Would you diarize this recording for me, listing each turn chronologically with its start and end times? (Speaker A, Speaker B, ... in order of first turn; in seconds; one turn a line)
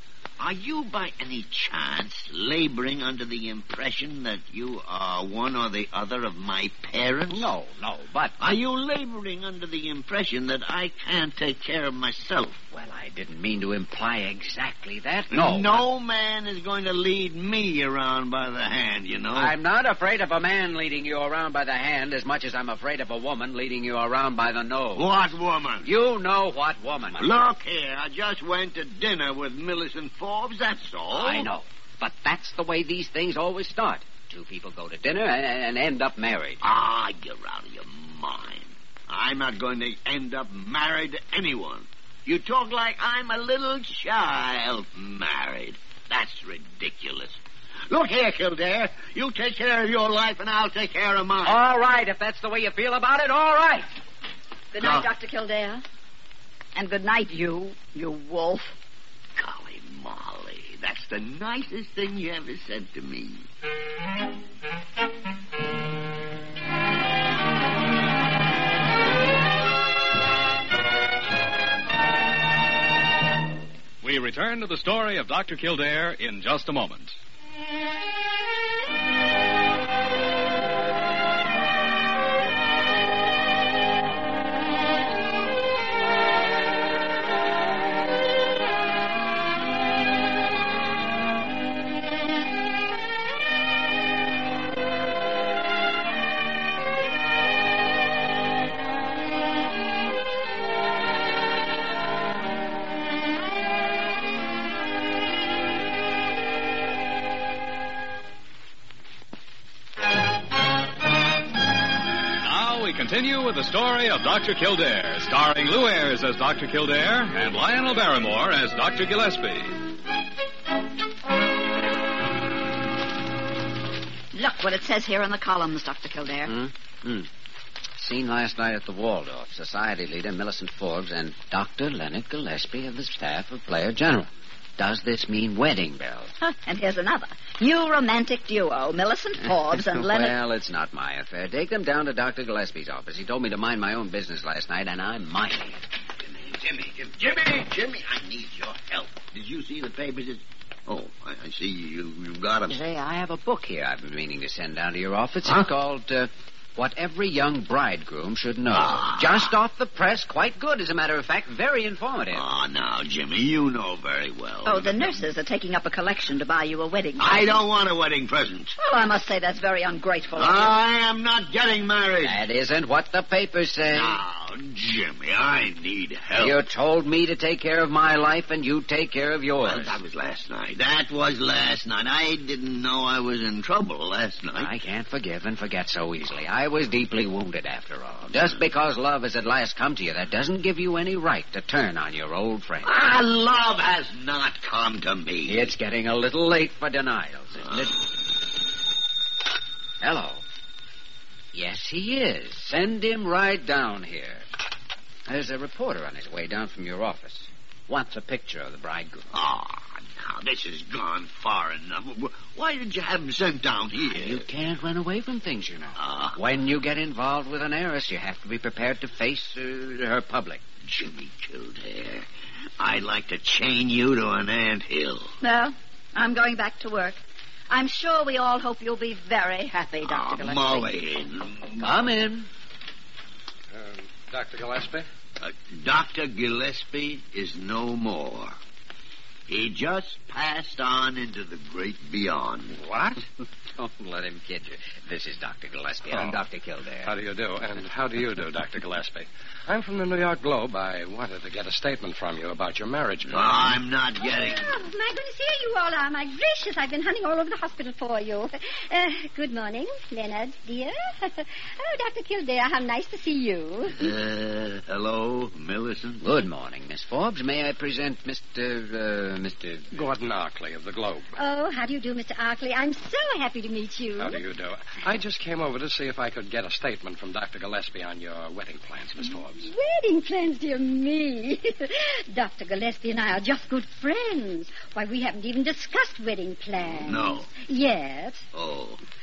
Speaker A: 0.4-7.5
Speaker B: 7.3-8.4
Speaker A: 8.4-12.6
Speaker B: 12.7-15.8
Speaker A: 15.3-19.5
Speaker B: 19.3-25.1
Speaker A: 24.9-25.9
Speaker B: 25.8-27.3
Speaker A: 27.2-31.5
Speaker B: 31.1-36.6
Speaker A: 36.6-47.4
Speaker A: 47.9-51.6
Speaker B: 51.4-53.9
Speaker C: 54.7-55.8
Speaker A: 54.8-55.1
Speaker C: 56.7-58.7
Speaker A: 59.4-63.4
Speaker D: 74.0-77.1
Speaker D: 112.4-119.7
Speaker C: 124.3-126.5
Speaker B: 126.5-127.3
Speaker B: 128.0-136.3
Speaker C: 136.5-140.3
Speaker B: 139.8-145.8
Speaker A: 146.2-152.8
Speaker B: 152.7-162.4
Speaker A: 158.7-159.5
Speaker A: 162.3-165.2
Speaker C: 164.7-167.6
Speaker A: 167.2-168.8
Speaker C: 168.8-170.8
Speaker A: 170.3-172.4
Speaker B: 172.2-174.2
Speaker A: 173.9-176.6
Speaker B: 176.3-180.0
Speaker A: 179.6-184.7
Speaker B: 184.5-192.9
Speaker A: 192.8-195.7
Speaker B: 195.4-198.1
Speaker B: 200.0-200.4
Speaker B: 201.5-204.4
Speaker B: 205.3-209.3
Speaker A: 209.3-214.4
Speaker B: 214.1-220.6
Speaker A: 216.0-216.4
Speaker A: 220.8-222.3
Speaker A: 222.8-225.3
Speaker C: 225.4-227.2
Speaker C: 227.7-230.9
Speaker A: 230.0-231.9
Speaker B: 231.8-232.5
Speaker E: 233.7-235.1
Speaker A: 235.4-238.6
Speaker A: 239.5-242.8
Speaker B: 242.8-247.1
Speaker E: 246.1-246.4
Speaker E: 247.0-253.8
Speaker A: 253.3-254.7
Speaker F: 254.2-264.1
Speaker A: 264.0-266.2
Speaker B: 266.2-269.9
Speaker E: 269.9-271.3
Speaker F: 271.4-274.4
Speaker E: 274.2-279.7
Speaker F: 279.3-288.4
Speaker A: 286.9-287.5
Speaker A: 288.5-289.0